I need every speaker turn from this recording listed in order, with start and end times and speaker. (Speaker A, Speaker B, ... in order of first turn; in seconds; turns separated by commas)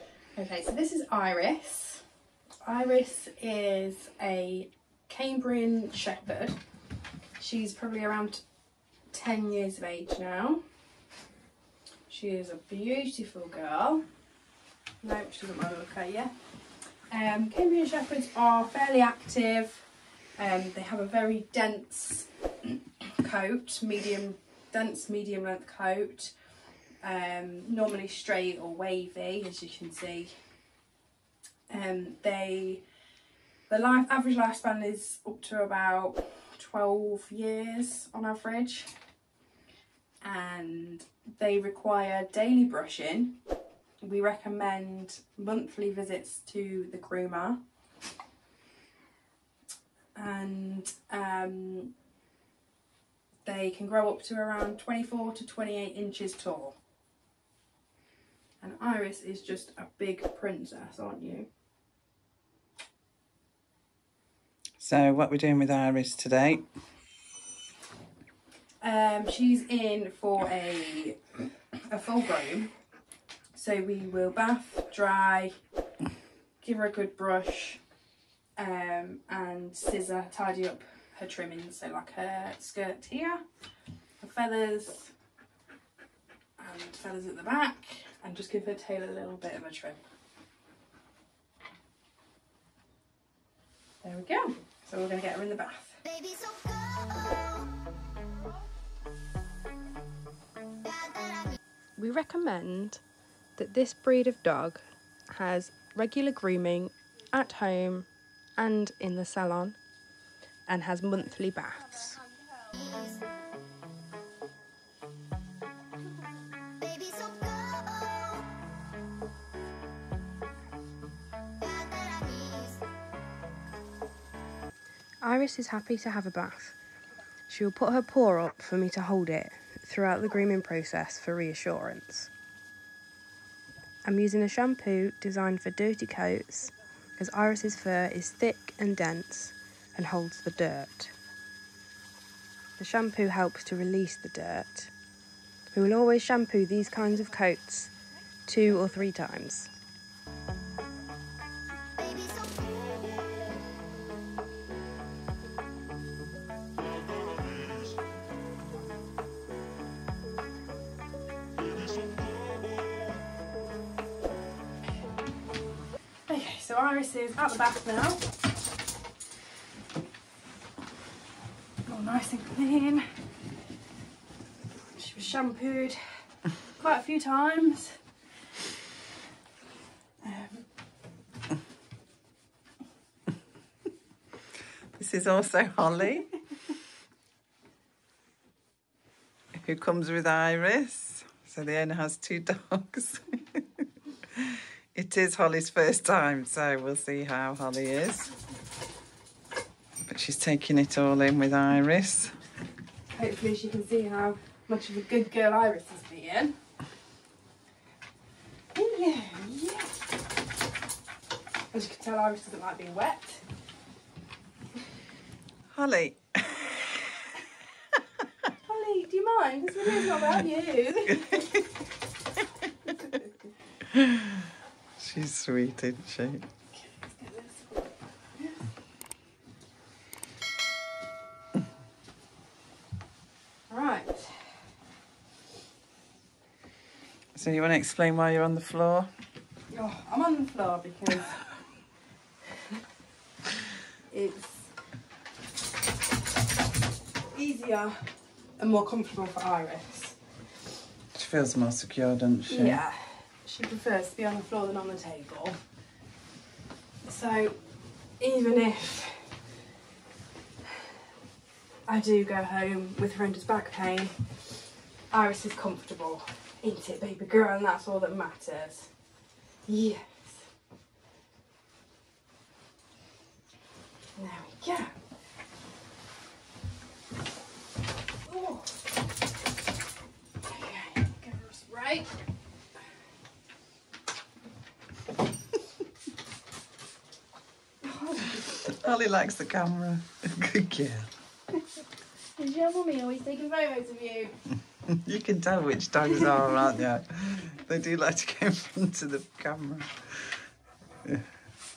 Speaker A: 0.3-2.0, Speaker A: 2.6-6.6, Speaker A: 7.4-8.4, Speaker A: 9.1-10.6, Speaker A: 12.1-14.0, Speaker A: 15.0-16.3, Speaker A: 17.1-26.3, Speaker A: 27.0-30.3, Speaker A: 31.7-32.8, Speaker A: 33.7-38.9, Speaker A: 40.2-43.4, Speaker A: 44.0-47.6, Speaker A: 50.1-51.9, Speaker A: 53.4-56.8, Speaker A: 58.6-61.5, Speaker B: 64.8-66.7, Speaker A: 68.8-71.2, Speaker A: 71.8-72.7, Speaker A: 73.5-75.5, Speaker A: 76.6-77.8, Speaker A: 78.6-83.4, Speaker A: 84.2-85.1, Speaker A: 86.6-90.0, Speaker A: 94.0-96.1, Speaker A: 102.0-103.0, Speaker A: 103.6-109.8, Speaker A: 110.7-112.3, Speaker A: 125.2-126.8, Speaker A: 127.5-132.3, Speaker A: 134.0-141.1, Speaker A: 142.8-144.9, Speaker A: 145.7-147.9, Speaker A: 148.5-149.7, Speaker A: 166.3-168.2, Speaker A: 171.9-173.1, Speaker A: 174.8-176.0, Speaker A: 176.7-178.0, Speaker A: 180.2-180.7, Speaker B: 184.9-186.3, Speaker B: 189.5-198.3, Speaker B: 200.1-202.4, Speaker A: 203.1-206.6, Speaker A: 208.7-210.0, Speaker A: 211.7-213.4, Speaker B: 215.7-216.9, Speaker A: 218.5-221.7, Speaker B: 221.2-221.6, Speaker A: 222.9-223.3, Speaker B: 223.9-224.5, Speaker B: 225.0-226.5, Speaker A: 226.7-228.6, Speaker A: 233.7-234.6, Speaker B: 237.3-239.1, Speaker A: 239.7-241.4, Speaker A: 244.1-244.7, Speaker A: 247.3-248.1, Speaker A: 248.6-250.2, Speaker B: 251.1-252.8, Speaker A: 252.5-255.6, Speaker A: 257.0-257.6, Speaker A: 258.2-259.3, Speaker A: 261.9-264.2, Speaker A: 265.1-268.9, Speaker A: 269.6-270.5, Speaker A: 274.1-274.9, Speaker A: 278.2-278.8, Speaker A: 280.4-282.2, Speaker A: 287.8-288.7, Speaker B: 288.6-291.1, Speaker A: 292.4-294.3, Speaker B: 294.9-300.4